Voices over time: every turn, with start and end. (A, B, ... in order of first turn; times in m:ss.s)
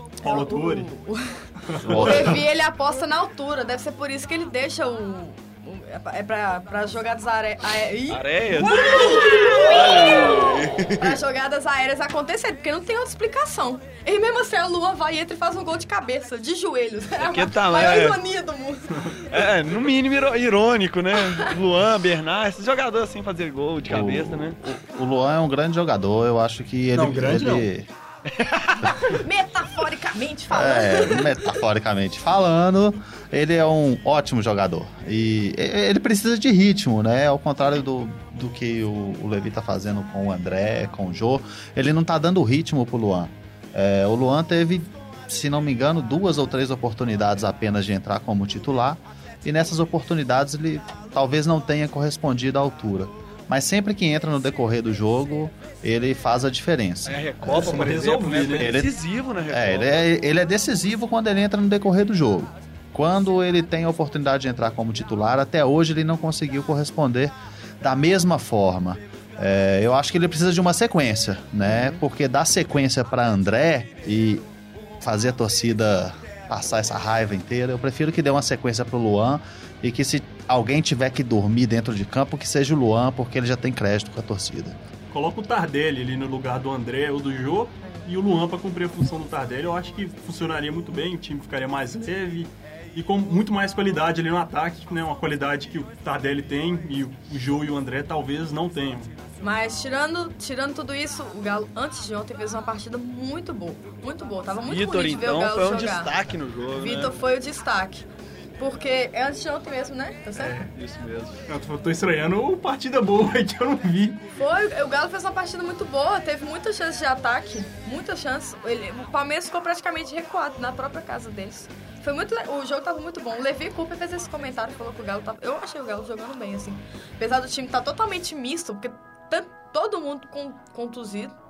0:00.2-0:00.9 A
0:00.2-0:01.4 B
0:01.7-0:02.4 A
0:01.8-0:02.4 C
0:01.9-0:19.4 B
0:08.1-0:11.1 D
0:08.5-0:10.1 A
0:17.2-0:18.2 D
0:19.3-0:24.6 D
0:23.9-0:27.9 C
0:26.9-0:27.7 A
0:28.3-0:28.9 D
0:29.0-0:31.3 B
0:30.5-0:58.0 C
0:57.0-1:00.0 D
0:57.5-0:58.7 A
0:58.6-0:59.0 C
0:59.5-1:14.4 C
1:15.0-1:24.8 C
1:25.1-1:39.1 A
1:39.4-1:46.1 B
1:44.7-1:47.2 D
1:46.8-1:48.1 B
1:48.6-1:50.6 B
1:50.4-1:50.7 A
1:50.7-1:51.4 D
1:51.5-1:54.2 A
1:54.3-2:11.3 B